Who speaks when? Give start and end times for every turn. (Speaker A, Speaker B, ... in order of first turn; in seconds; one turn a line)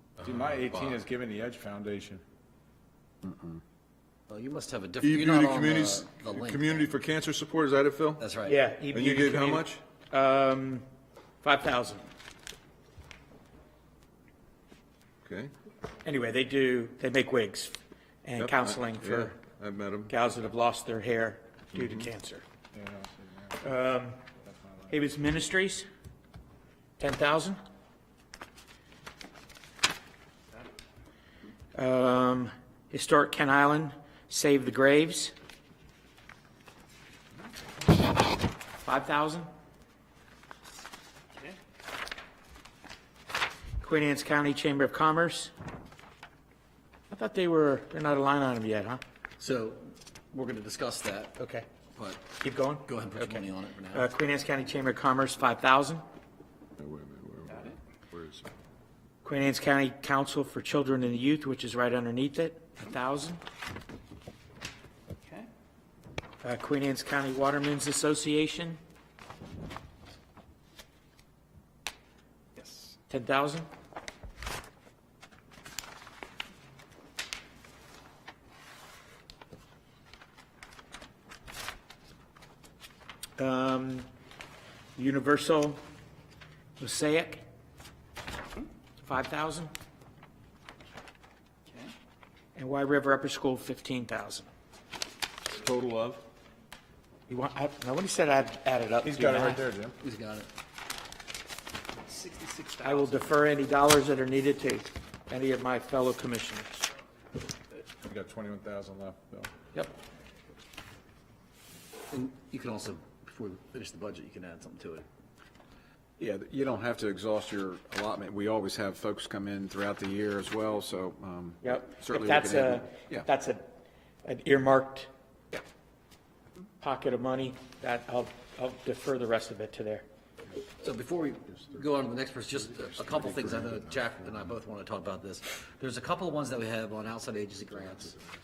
Speaker A: 0.2-1.0
Speaker B: 0.2-2.2
Speaker C: 3.2-3.6
Speaker D: 4.3-6.9
Speaker A: 5.0-8.2
Speaker D: 8.2-8.6
Speaker E: 8.4-10.8
Speaker A: 8.9-9.8
Speaker E: 11.4-12.1
Speaker A: 15.2-15.5
Speaker E: 16.0-19.4
Speaker A: 18.4-20.1
Speaker E: 20.1-22.4
Speaker A: 21.7-22.1
Speaker B: 22.7-23.6
Speaker E: 23.6-24.2
Speaker B: 24.4-25.3
Speaker E: 24.9-25.9
Speaker E: 27.0-27.6
Speaker E: 31.8-35.3
Speaker E: 38.8-39.5
Speaker E: 43.8-45.5
Speaker E: 47.1-49.0
Speaker D: 49.4-51.4
Speaker E: 51.4-51.7
Speaker D: 52.0-54.1
Speaker E: 52.4-56.0
Speaker A: 56.8-58.5
Speaker E: 59.2-63.4
Speaker E: 66.4-68.8
Speaker D: 72.6-73.0
Speaker E: 73.1-73.7
Speaker E: 83.4-84.1
Speaker E: 85.0-85.8
Speaker E: 86.8-87.4
Speaker E: 89.0-89.7
Speaker E: 92.6-94.5
Speaker A: 95.5-96.2
Speaker E: 97.3-99.7
Speaker B: 99.0-100.0
Speaker D: 100.0-100.5
Speaker D: 102.1-103.3
Speaker E: 102.8-106.8
Speaker B: 108.0-109.5
Speaker D: 112.1-115.0
Speaker C: 116.2-123.3
Speaker E: 121.6-123.7
Speaker E: 124.2-125.1
Speaker E: 126.8-130.1
Speaker D: 130.8-138.2